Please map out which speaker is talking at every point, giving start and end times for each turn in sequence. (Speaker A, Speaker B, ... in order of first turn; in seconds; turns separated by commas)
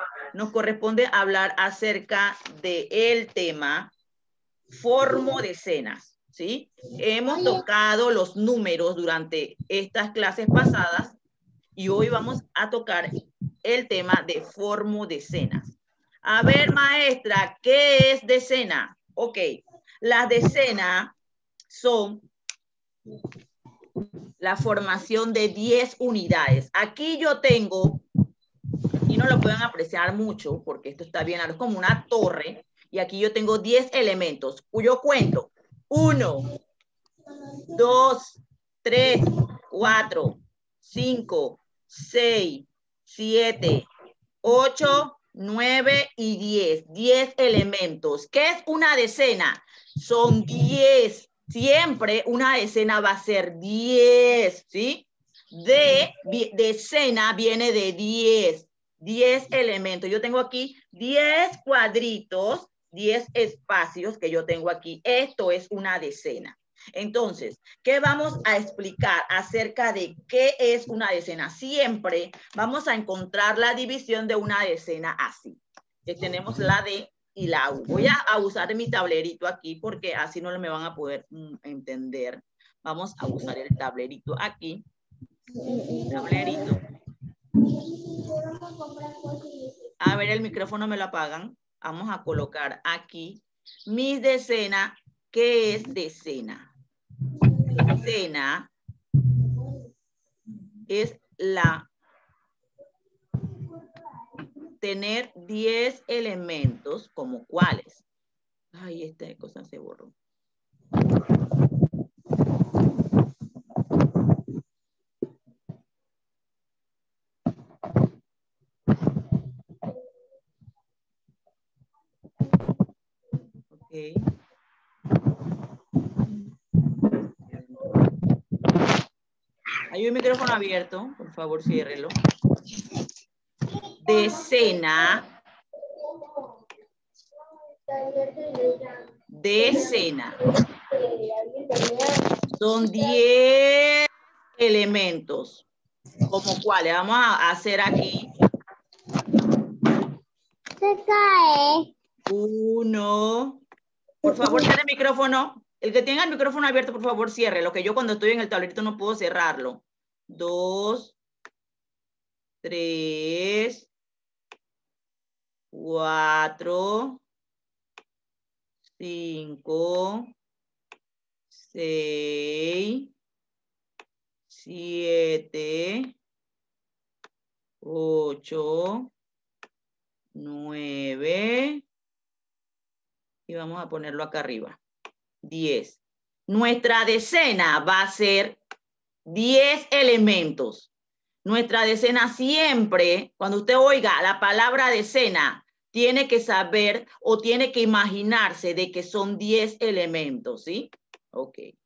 Speaker A: 0.3-3.9, Speaker A: 4.7-11.2, Speaker A: 11.8-15.7, Speaker A: 16.2-21.2, Speaker A: 21.7-22.3, Speaker A: 24.4-28.0, Speaker A: 29.1-36.5, Speaker A: 37.7-43.9, Speaker A: 44.4-84.8, Speaker B: 85.5-86.7, Speaker A: 86.1-86.8, Speaker B: 87.6-89.7, Speaker A: 90.0-96.7, Speaker B: 97.4-97.9, Speaker A: 97.6-98.7, Speaker B: 99.5-99.8, Speaker A: 100.9-101.9, Speaker A: 104.8-108.0, Speaker A: 108.7-110.1, Speaker A: 123.7-124.2, Speaker A: 129.9-132.2, Speaker A: 134.0-135.2, Speaker B: 134.1-134.9, Speaker B: 136.0-136.5, Speaker B: 137.9-139.1, Speaker A: 139.4-140.4, Speaker B: 139.6-142.3, Speaker A: 142.6-145.7, Speaker A: 146.3-148.3, Speaker B: 150.8-151.8, Speaker A: 152.3-153.6, Speaker A: 154.2-161.2, Speaker A: 162.6-163.9, Speaker A: 165.7-167.2, Speaker A: 168.9-170.3, Speaker A: 171.5-173.1, Speaker A: 174.5-176.1, Speaker A: 177.8-179.1, Speaker A: 180.3-181.8, Speaker A: 183.5-184.8, Speaker A: 185.4-188.6, Speaker A: 189.3-190.9, Speaker A: 191.4-201.7